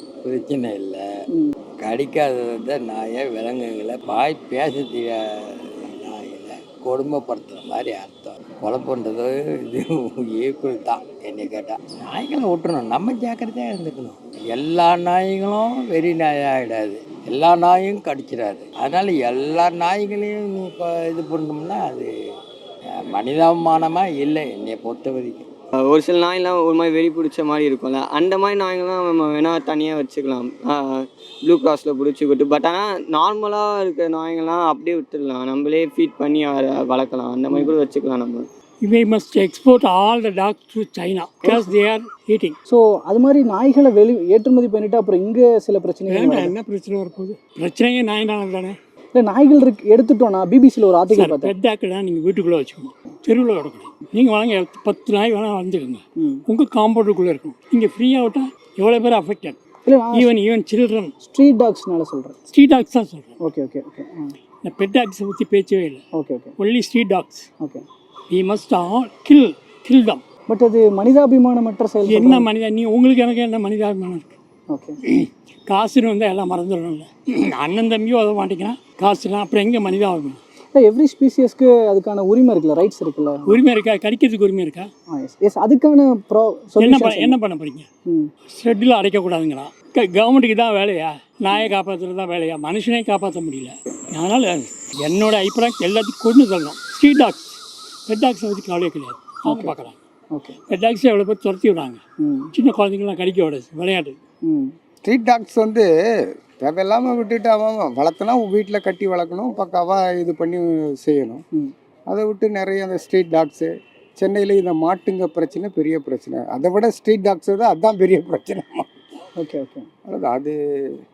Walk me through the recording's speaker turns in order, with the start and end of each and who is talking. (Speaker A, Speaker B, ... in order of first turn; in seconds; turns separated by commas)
Speaker A: 0.2-1.0, Speaker A: 1.8-22.1, Speaker A: 23.1-25.5, Speaker B: 25.9-38.4, Speaker C: 38.9-42.6, Speaker D: 42.7-46.6, Speaker C: 46.1-48.8, Speaker D: 49.1-51.5, Speaker C: 51.1-59.6, Speaker D: 56.2-56.5, Speaker D: 59.9-60.3, Speaker C: 60.1-61.1, Speaker D: 61.2-62.4, Speaker C: 62.5-63.3, Speaker D: 63.4-64.3, Speaker C: 64.7-66.0, Speaker D: 66.1-66.5, Speaker C: 66.6-67.5, Speaker D: 67.6-67.8, Speaker C: 68.3-70.2, Speaker D: 70.5-72.5, Speaker C: 72.1-74.3, Speaker D: 74.7-75.0, Speaker C: 75.7-80.4, Speaker D: 80.8-83.6, Speaker C: 83.5-84.9, Speaker D: 85.1-87.4, Speaker C: 86.8-87.9, Speaker C: 88.6-97.5, Speaker C: 98.1-100.0, Speaker D: 99.4-100.5, Speaker C: 100.7-102.0, Speaker D: 102.2-102.5, Speaker C: 102.6-104.2, Speaker D: 104.5-104.7, Speaker E: 105.0-105.9, Speaker E: 106.6-111.4, Speaker E: 112.1-118.9, Speaker D: 119.4-119.9, Speaker E: 120.1-120.6